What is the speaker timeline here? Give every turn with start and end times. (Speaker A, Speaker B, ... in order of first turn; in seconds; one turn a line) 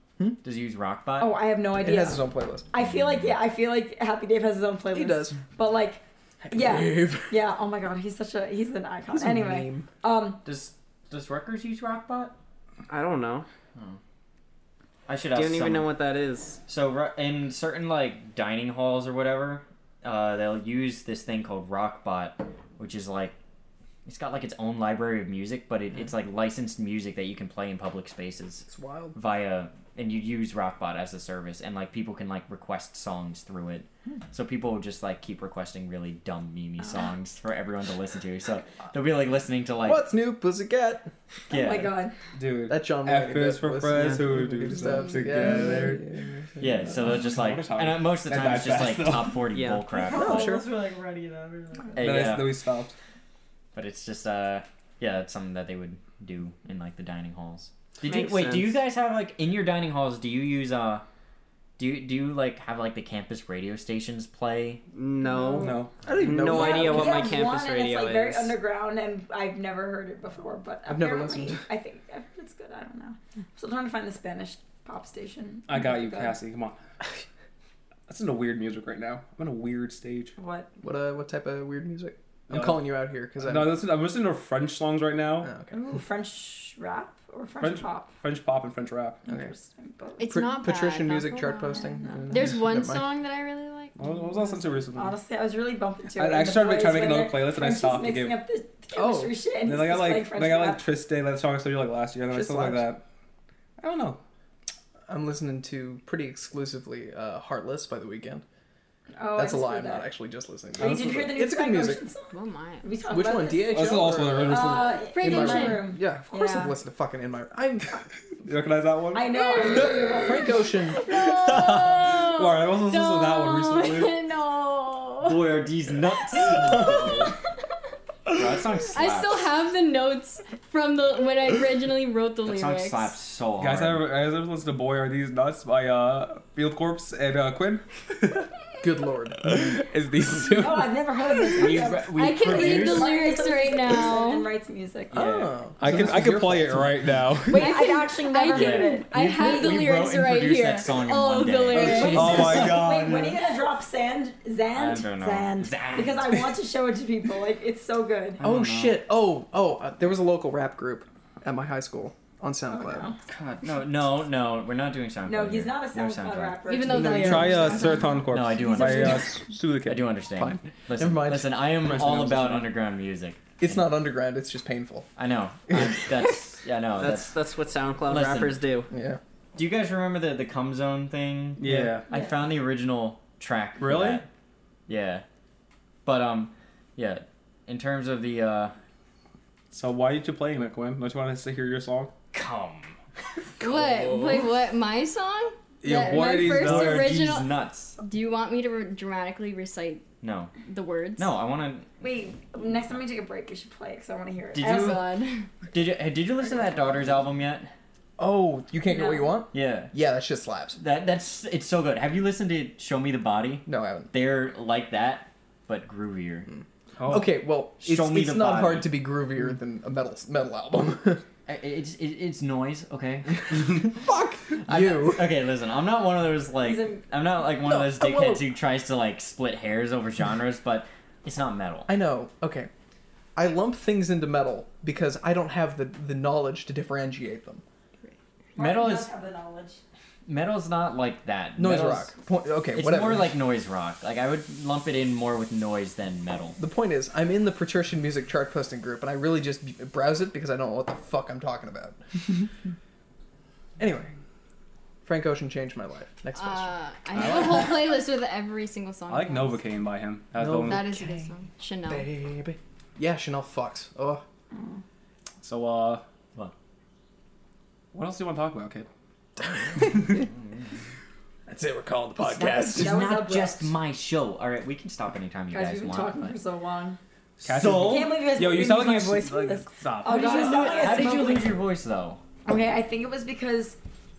Speaker A: 0.4-1.3
Speaker B: 1.2-10.4
Speaker C: 1.8-2.7
Speaker A: 2.8-3.2
Speaker C: 4.9-5.4
Speaker C: 6.4-7.4
Speaker C: 9.1-9.9
Speaker A: 10.4-12.3
Speaker D: 12.9-13.5
Speaker A: 15.1-15.9
Speaker D: 15.3-16.6
Speaker A: 16.7-23.4
Speaker A: 24.1-40.1
Speaker C: 28.7-29.2
Speaker C: 39.8-41.1
Speaker A: 41.5-41.9
Speaker B: 41.5-42.1
Speaker E: 42.3-46.1
Speaker C: 42.7-47.3
Speaker D: 43.9-44.2
Speaker A: 46.6-50.6
Speaker E: 46.9-49.5
Speaker D: 49.5-49.9
Speaker F: 49.9-52.1
Speaker C: 50.1-50.7
Speaker A: 52.0-52.6
Speaker E: 52.0-53.0
Speaker A: 53.7-61.0
Speaker D: 58.0-58.8
Speaker A: 61.8-64.8
Speaker D: 64.9-68.6
Speaker E: 65.6-66.0
Speaker C: 66.0-67.4
Speaker B: 66.5-76.4
Speaker C: 70.9-71.6
Speaker E: 75.7-76.8
Speaker E: 78.1-80.3
Speaker B: 80.4-80.7
Speaker C: 80.8-83.9
Speaker E: 82.5-85.5
Speaker C: 85.4-85.8
Speaker B: 85.7-88.1
Speaker E: 87.6-89.3
Speaker B: 89.3-90.4
Speaker C: 89.3-89.5
Speaker G: 90.2-94.5
Speaker C: 90.2-93.1
Speaker B: 92.0-92.3
Speaker E: 94.0-95.2
Speaker B: 94.9-100.8
Speaker E: 96.2-98.4
Speaker C: 99.0-99.4
Speaker E: 99.6-103.0
Speaker C: 102.3-102.9
Speaker E: 103.8-104.2
Speaker C: 105.1-108.4
Speaker B: 109.2-110.1
Speaker C: 109.4-112.0
Speaker B: 110.8-116.8
Speaker E: 110.8-111.3
Speaker G: 112.3-112.9
Speaker C: 113.1-118.0
Speaker E: 113.7-115.0
Speaker G: 114.9-116.0
Speaker E: 118.4-120.1
Speaker B: 119.1-120.7
Speaker G: 119.3-119.8
Speaker C: 120.2-121.2
Speaker G: 120.9-125.6
Speaker E: 121.3-124.2
Speaker A: 125.2-127.3
Speaker G: 126.1-127.3
Speaker A: 128.3-129.5
Speaker G: 128.9-133.1
Speaker A: 132.4-134.1
Speaker E: 133.6-138.5
Speaker C: 138.8-140.9
Speaker E: 139.4-140.6
Speaker B: 140.6-145.2
Speaker A: 141.6-143.1
Speaker G: 142.1-144.5
Speaker A: 145.1-145.6
Speaker C: 145.1-147.2
Speaker E: 145.8-147.7
Speaker G: 147.5-152.6
Speaker B: 147.5-149.9
Speaker A: 148.5-152.9
Speaker B: 151.7-158.4
Speaker C: 151.7-152.3
Speaker E: 152.1-153.4
Speaker A: 154.8-156.4
Speaker A: 158.4-159.0
Speaker C: 158.4-163.1
Speaker B: 162.7-163.2
Speaker A: 163.3-166.6
Speaker B: 165.2-168.2
Speaker G: 166.7-169.4
Speaker C: 166.9-167.5
Speaker E: 167.1-170.1
Speaker A: 168.1-174.0
Speaker C: 170.4-171.7
Speaker E: 171.8-172.7
Speaker C: 173.6-175.1
Speaker A: 175.2-177.4
Speaker C: 175.7-176.4
Speaker D: 177.0-178.9
Speaker A: 178.1-178.6
Speaker C: 178.9-179.2
Speaker A: 179.6-184.3
Speaker E: 181.6-182.1
Speaker C: 181.7-181.9
Speaker E: 183.8-184.2
Speaker A: 184.9-185.2
Speaker A: 186.1-188.7
Speaker E: 189.7-192.1
Speaker A: 192.3-193.0
Speaker G: 193.6-200.1
Speaker C: 193.6-194.4
Speaker E: 195.8-197.1
Speaker A: 196.4-198.0
Speaker A: 200.2-200.5
Speaker G: 200.6-201.3
Speaker A: 201.2-201.9
Speaker B: 202.0-205.0
Speaker A: 204.6-205.0
Speaker G: 204.6-205.5
Speaker A: 205.7-207.7
Speaker C: 208.2-210.8
Speaker B: 208.9-209.4
Speaker A: 209.5-209.9
Speaker A: 210.8-216.5
Speaker C: 213.7-214.1
Speaker C: 216.5-221.2
Speaker E: 217.0-217.3
Speaker A: 217.8-218.9
Speaker A: 221.5-231.9
Speaker C: 223.5-225.4
Speaker B: 226.6-227.0
Speaker C: 227.6-228.5
Speaker C: 231.9-232.7
Speaker C: 233.4-237.6
Speaker B: 238.6-239.8
Speaker A: 238.6-239.1
Speaker A: 240.3-242.2
Speaker C: 241.6-243.4
Speaker A: 242.7-246.6
Speaker C: 246.6-252.4
Speaker C: 253.8-254.2
Speaker C: 255.0-257.8
Speaker G: 256.4-259.7
Speaker E: 257.2-257.8
Speaker E: 259.1-260.9
Speaker C: 260.4-261.3
Speaker G: 260.6-262.1
Speaker C: 261.9-264.2
Speaker B: 264.5-264.8
Speaker E: 265.4-266.0
Speaker E: 267.9-268.9
Speaker C: 269.4-270.3
Speaker A: 270.4-270.6
Speaker C: 271.5-273.0
Speaker A: 272.2-276.4
Speaker B: 272.7-273.7
Speaker B: 275.5-277.0
Speaker E: 277.4-281.0
Speaker A: 277.4-278.2
Speaker B: 277.8-281.6
Speaker A: 280.1-282.2
Speaker B: 282.4-283.8